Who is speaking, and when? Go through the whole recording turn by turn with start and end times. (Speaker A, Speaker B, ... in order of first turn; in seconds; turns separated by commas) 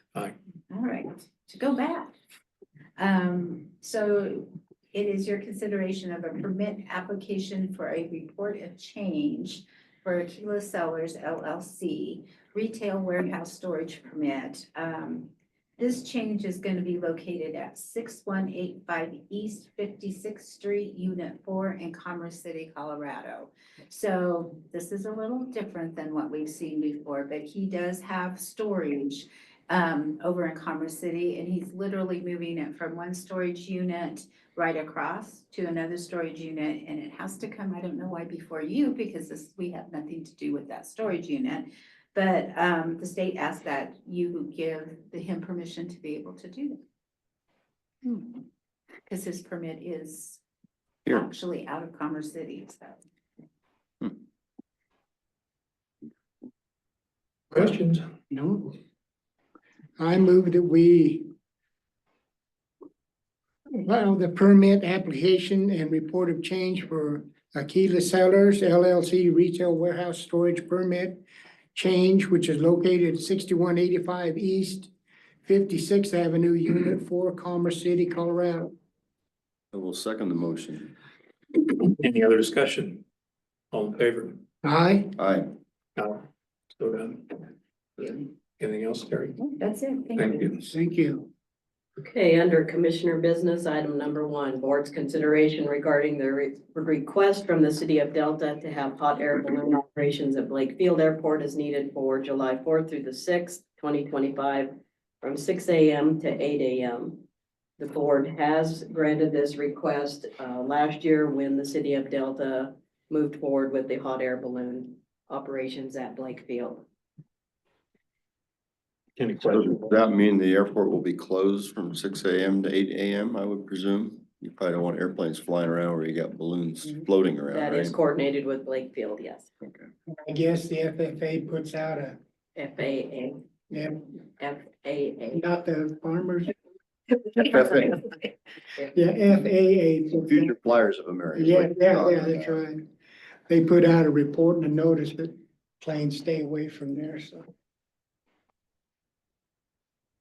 Speaker A: 0.7-2.1, Speaker A: 3.0-46.8, Speaker A: 49.0-50.4, Speaker A: 51.1-53.0, Speaker B: 57.5-58.0, Speaker C: 58.3-58.8, Speaker C: 60.0-61.3, Speaker C: 63.7-71.2, Speaker C: 71.7-74.9, Speaker C: 75.4-78.7, Speaker D: 79.7-80.9, Speaker B: 81.9-83.0, Speaker B: 83.7-84.4, Speaker C: 84.6-85.1, Speaker D: 85.2-85.5, Speaker B: 86.0-86.2, Speaker B: 86.8-87.3, Speaker B: 88.0-89.3, Speaker A: 89.4-90.5, Speaker B: 90.2-90.6, Speaker C: 90.6-91.3, Speaker E: 92.0-107.2, Speaker E: 107.8-116.8, Speaker B: 119.2-119.9, Speaker D: 119.4-128.0, Speaker E: 127.5-129.5, Speaker C: 130.1-132.2, Speaker E: 132.6-133.4, Speaker C: 133.7-134.1, Speaker E: 134.4-135.4, Speaker C: 135.3-136.5, Speaker D: 137.3-138.0, Speaker C: 138.9-140.5, Speaker D: 140.3-142.6, Speaker C: 141.3-142.9, Speaker C: 143.5-147.5